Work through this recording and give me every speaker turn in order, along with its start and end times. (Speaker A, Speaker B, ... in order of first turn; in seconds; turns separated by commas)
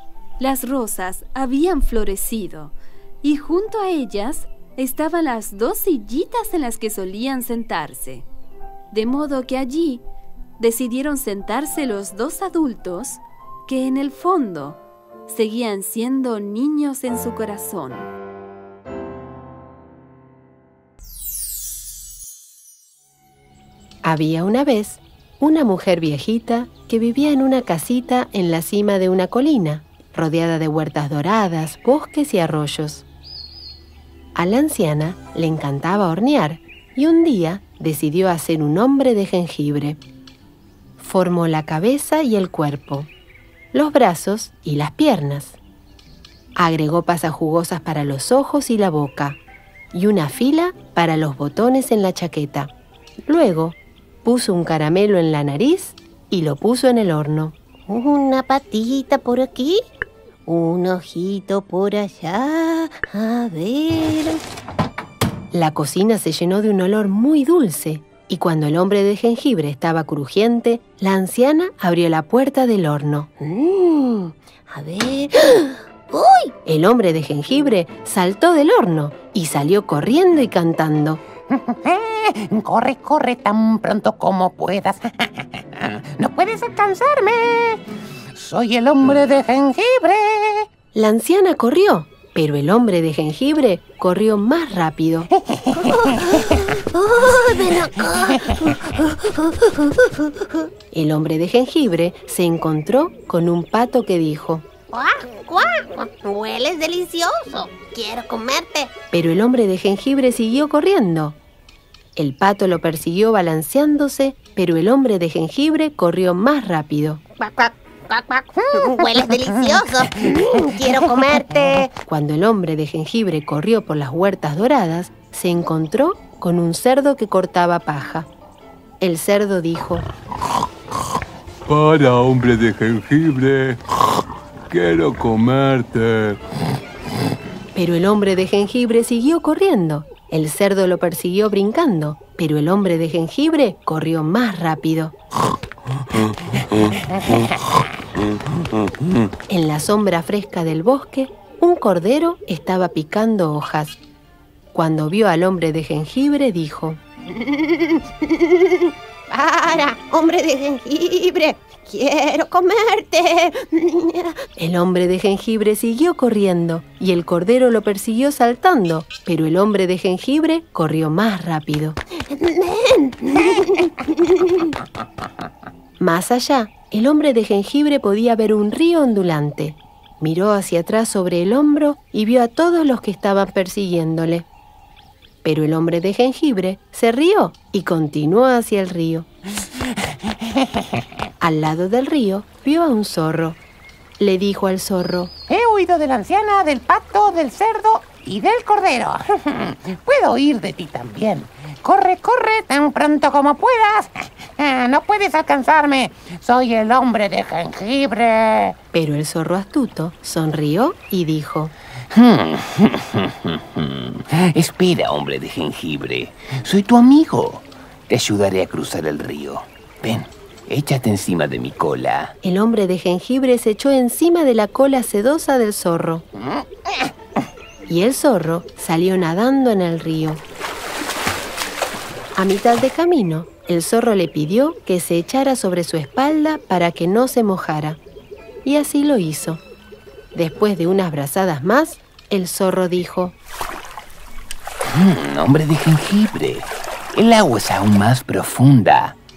Speaker A: 0.4-8.3, Speaker A: 8.9-10.0, Speaker A: 10.6-18.1, Speaker B: 24.0-33.0, Speaker B: 34.4-40.0, Speaker B: 41.0-43.1, Speaker B: 43.7-45.6, Speaker B: 46.6-49.4, Speaker B: 49.9-52.7, Speaker B: 53.3-57.5, Speaker C: 57.9-59.8, Speaker C: 60.5-64.4, Speaker B: 65.5-73.3, Speaker C: 73.4-76.5, Speaker B: 76.7-81.2, Speaker D: 81.7-85.1, Speaker D: 86.2-87.8, Speaker D: 88.3-90.7, Speaker B: 90.9-95.3, Speaker C: 95.7-100.6, Speaker B: 100.9-104.7, Speaker C: 104.9-108.9, Speaker B: 109.1-111.4, Speaker B: 112.2-117.2, Speaker C: 117.4-121.9, Speaker D: 118.8-119.1, Speaker B: 122.0-128.3, Speaker B: 129.0-130.1, Speaker E: 131.7-133.8, Speaker E: 134.7-136.4, Speaker B: 137.8-145.2, Speaker B: 149.5-154.0, Speaker B: 154.7-157.0, Speaker C: 157.3-164.4, Speaker B: 164.6-172.0, Speaker C: 172.2-174.7, Speaker B: 176.0-184.5, Speaker B: 185.4-189.3, Speaker B: 191.4-193.6, Speaker B: 194.2-195.3, Speaker D: 195.5-208.7, Speaker B: 208.9-211.7, Speaker F: 212.1-222.3, Speaker B: 222.4-226.2, Speaker B: 227.9-230.4, Speaker B: 232.4-238.0, Speaker B: 238.7-239.6, Speaker B: 240.3-243.3, Speaker F: 244.9-249.2